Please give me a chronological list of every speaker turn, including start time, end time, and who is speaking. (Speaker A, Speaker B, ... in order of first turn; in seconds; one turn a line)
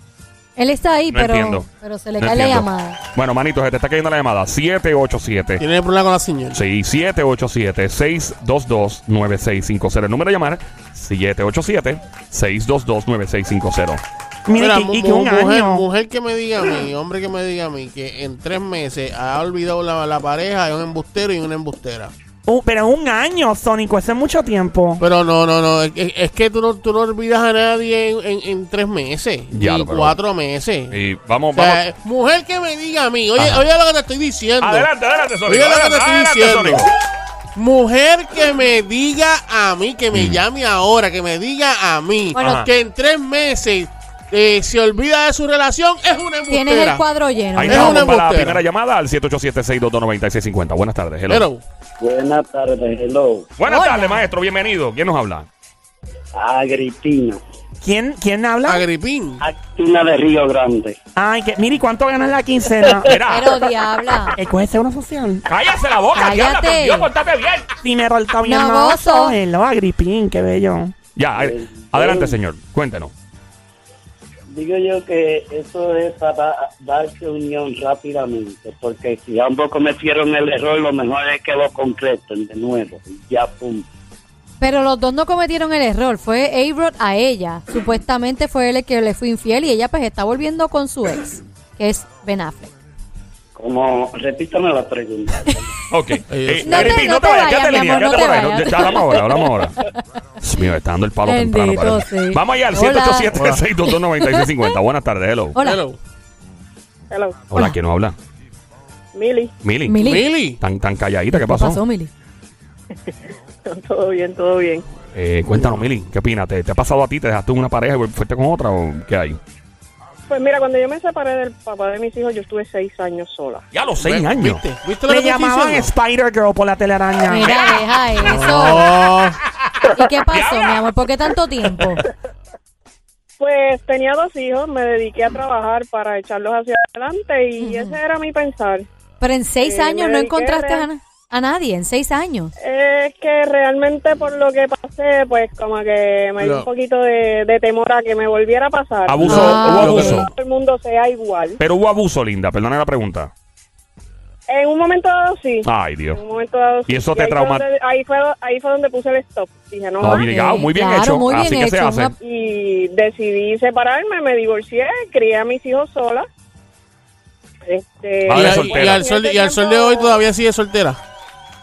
Speaker A: 0.6-3.0
Speaker B: 1.1-1.7
Speaker B: 2.2-5.6
Speaker C: 5.6-6.6
Speaker B: 6.5-14.0
Speaker D: 14.5-15.8
Speaker C: 14.6-22.1
Speaker D: 22.5-25.0
Speaker C: 25.0-31.0
Speaker B: 29.5-30.2
Speaker B: 30.9-31.8
Speaker C: 31.5-34.9
Speaker B: 33.4-33.6
Speaker B: 34.6-36.9
Speaker C: 35.5-36.9
Speaker C: 37.5-47.0
Speaker B: 40.1-40.4
Speaker B: 42.4-42.7
Speaker A: 46.5-48.1
Speaker B: 47.6-51.5
Speaker C: 47.6-48.6
Speaker C: 51.3-51.6
Speaker E: 52.0-53.5
Speaker B: 53.6-55.5
Speaker A: 53.7-54.2
Speaker E: 56.4-57.4
Speaker D: 57.8-58.9
Speaker C: 58.6-59.4
Speaker E: 59.4-61.0
Speaker D: 61.1-63.1
Speaker B: 63.0-63.5
Speaker A: 63.3-64.3
Speaker D: 64.4-65.4
Speaker B: 65.5-67.7
Speaker A: 66.1-67.1
Speaker D: 67.8-70.9
Speaker A: 68.4-69.3
Speaker B: 71.2-73.1
Speaker E: 71.3-72.3
Speaker E: 74.5-83.9
Speaker A: 84.6-92.7
Speaker E: 93.5-95.6
Speaker B: 95.9-99.8
Speaker C: 96.3-97.1
Speaker A: 96.6-100.0
Speaker B: 100.4-105.5
Speaker A: 101.2-103.3
Speaker C: 103.3-103.6
Speaker A: 103.8-104.7
Speaker A: 105.5-105.8
Speaker C: 105.6-106.0
Speaker F: 107.1-107.4
Speaker B: 107.5-108.2
Speaker F: 109.1-109.5
Speaker B: 109.6-110.0
Speaker A: 109.8-110.3
Speaker C: 110.0-110.6
Speaker B: 110.6-111.8
Speaker A: 111.3-112.1
Speaker F: 113.7-114.8
Speaker B: 115.1-119.4
Speaker C: 115.5-115.8
Speaker F: 120.3-123.6
Speaker B: 123.7-124.6
Speaker C: 124.0-125.9
Speaker D: 125.1-127.5
Speaker A: 127.3-128.9
Speaker B: 127.4-127.8
Speaker C: 128.2-129.4
Speaker B: 129.6-130.8
Speaker A: 129.9-132.0
Speaker F: 133.4-138.9
Speaker A: 137.6-138.0
Speaker A: 139.2-142.5
Speaker F: 139.6-140.9
Speaker F: 142.6-151.6
Speaker C: 146.4-146.7
Speaker B: 149.1-150.3
Speaker C: 149.2-150.2
Speaker A: 149.3-150.2
Speaker B: 151.6-153.3
Speaker F: 154.5-160.2
Speaker B: 155.6-156.2
Speaker B: 156.9-157.6
Speaker B: 160.0-162.1
Speaker A: 160.0-162.1
Speaker F: 162.2-166.3
Speaker F: 167.6-170.2
Speaker B: 168.3-169.0
Speaker C: 168.3-171.0